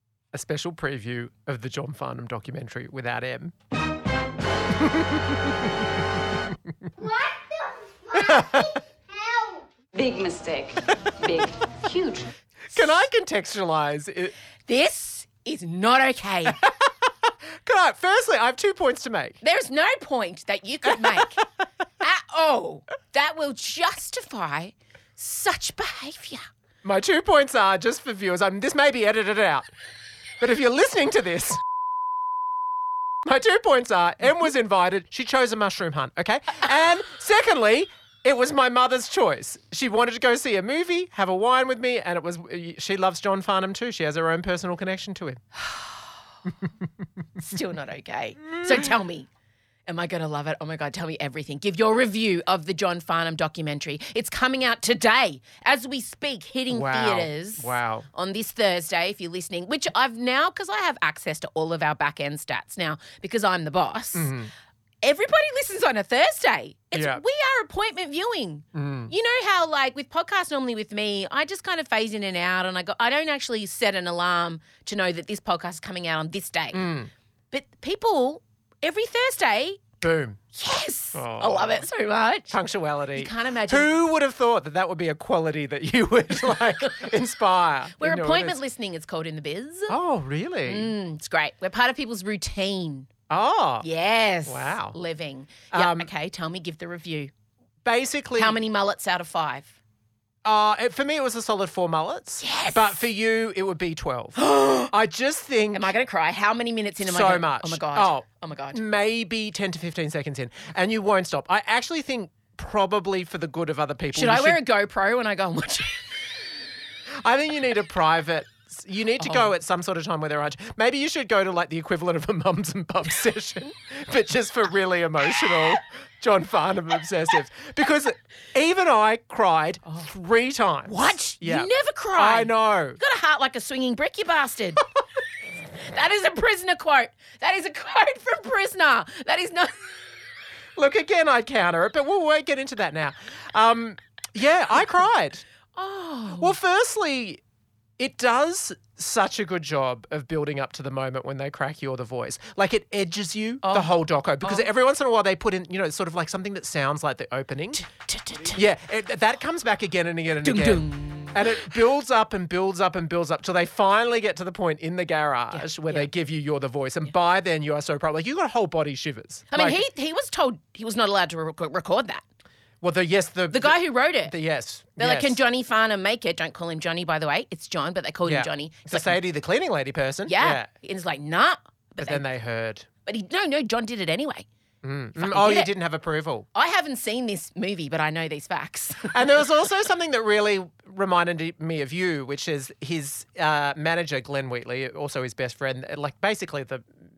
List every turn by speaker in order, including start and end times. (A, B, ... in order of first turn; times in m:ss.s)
0:00.3-0:03.5 A
0:04.8-0:05.5 A
0:08.1-0:08.8 A
0:09.9-0:12.3 B
0:12.7-0:14.3 A
0:14.7-0:16.6 C
0:16.5-0:16.9 A
0:17.6-0:19.4 A
0:19.4-0:21.4 C
0:22.0-0:26.5 C
0:26.8-0:29.7 A
0:30.4-0:31.6 A
0:33.2-0:45.4 A
0:47.4-0:49.3 C
0:49.9-1:04.3 C
0:56.7-0:58.1 A
1:04.2-1:04.5 A
1:05.0-1:16.8 C
1:06.9-1:07.2 A
1:08.8-1:09.1 A
1:16.7-1:17.1 A
1:17.5-1:19.8 C
1:20.0-1:20.4 A
1:20.6-1:22.6 C
1:21.2-1:21.9 A
1:22.5-1:28.6 A
1:23.2-1:23.9 C
1:28.0-1:30.0 C
1:29.9-1:30.9 A
1:30.7-1:33.1 C
1:33.3-1:33.9 A
1:33.8-1:37.3 C
1:34.5-1:35.0 A
1:35.7-1:36.1 A
1:37.8-1:38.6 A
1:38.4-1:39.7 C
1:40.4-1:45.8 A
1:42.4-1:43.0 C
1:44.4-1:44.9 C
1:45.7-1:48.8 C
1:47.0-1:54.6 A
1:54.1-1:56.0 C
1:57.2-2:13.0 A
1:59.2-1:59.5 C
2:10.9-2:14.8 C
2:15.9-2:19.7 C
2:20.8-2:25.4 A
2:25.8-2:26.6 C
2:26.4-2:27.4 A
2:28.0-2:37.8 A
2:33.6-2:33.9 C
2:34.4-2:34.7 C
2:37.8-2:38.6 C
2:38.5-2:49.8 A
2:40.4-2:41.4 C
2:45.5-2:46.1 C
2:49.5-2:52.2 C
2:52.8-2:55.4 A
2:53.5-2:54.4 C
2:55.0-2:59.2 C
2:58.2-3:00.7 A
3:00.3-3:02.2 C
3:02.0-3:02.9 A
3:03.1-3:04.5 C
3:04.8-3:06.5 A
3:05.2-3:05.7 C
3:06.6-3:09.1 C
3:09.1-3:16.8 A